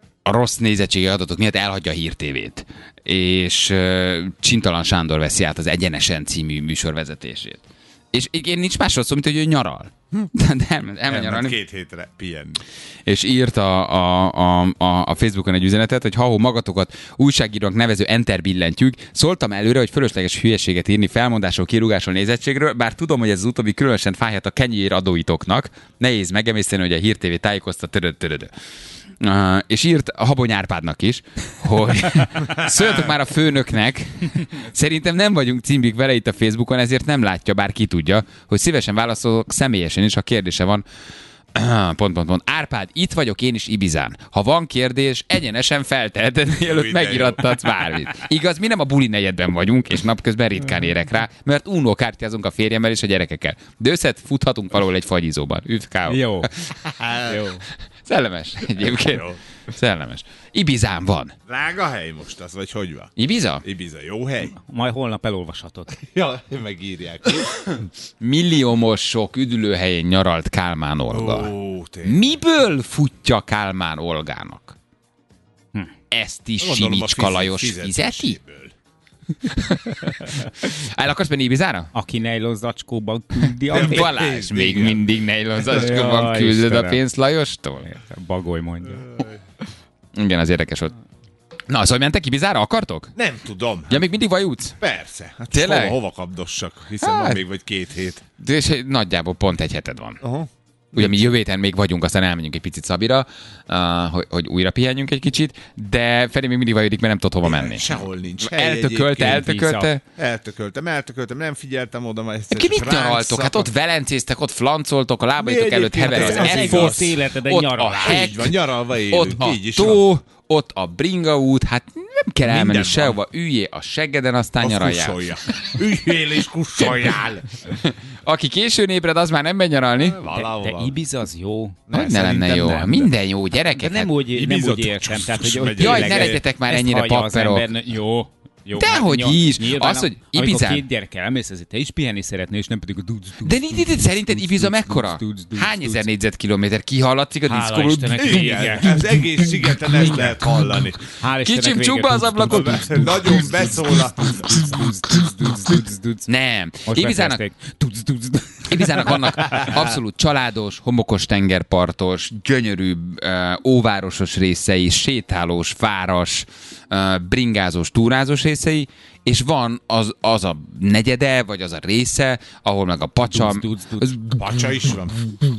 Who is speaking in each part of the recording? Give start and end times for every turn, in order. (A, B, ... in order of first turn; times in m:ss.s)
0:00.2-0:11.6 A
0:11.1-0:12.6 B
0:13.0-0:28.5 A
0:29.2-0:40.8 A
0:41.5-0:56.5 A
0:46.6-0:47.6 B
0:56.1-0:56.5 C
0:57.0-0:57.5 B
0:57.3-0:57.6 C
0:58.0-1:01.3 A
0:58.8-0:59.4 B
1:01.5-1:04.6 B
1:03.2-1:03.6 A
1:04.6-1:05.9 C
1:06.1-1:07.9 B
1:08.2-1:11.5 A
1:11.1-1:12.2 B
1:12.0-1:14.8 A
1:16.1-1:18.4 A
1:16.6-1:18.7 B
1:19.5-1:21.9 A
1:21.9-1:24.1 C
1:23.7-1:25.0 B
1:23.7-1:27.8 A
1:25.7-1:27.0 C
1:27.8-1:29.1 C
1:29.0-1:29.4 B
1:30.1-1:30.9 A
1:31.7-1:33.1 A
1:33.1-1:34.0 B
1:33.9-1:34.8 A
1:34.8-1:38.2 B
1:35.5-1:36.0 A
1:37.0-1:37.4 A
1:38.4-1:40.2 A
1:40.2-1:41.3 B
1:40.9-1:50.0 A
1:47.4-1:49.4 B
1:49.2-1:49.9 C
1:50.2-1:53.7 B
1:52.5-1:58.5 A
1:55.4-1:57.1 B
1:56.0-1:58.2 C
1:58.0-2:00.0 B
1:59.1-2:05.2 A
2:02.4-2:03.2 B
2:04.6-2:07.5 B
2:06.8-2:07.1 A
2:07.8-2:10.2 A
2:10.0-2:11.0 B
2:10.3-2:11.8 C
2:11.9-2:13.1 B
2:11.9-2:14.1 A
2:13.8-2:26.0 C
2:14.3-2:16.4 B
2:15.8-2:17.6 A
2:18.8-2:20.8 A
2:23.4-2:28.6 A
2:27.5-2:29.0 C
2:28.2-2:31.0 B
2:30.0-2:30.3 C
2:31.2-2:36.3 C
2:31.4-2:33.7 A
2:32.5-2:34.6 B
2:36.3-2:37.4 A
2:36.9-2:39.7 C
2:38.7-2:54.3 A
2:53.3-2:54.1 C
2:54.4-2:55.2 B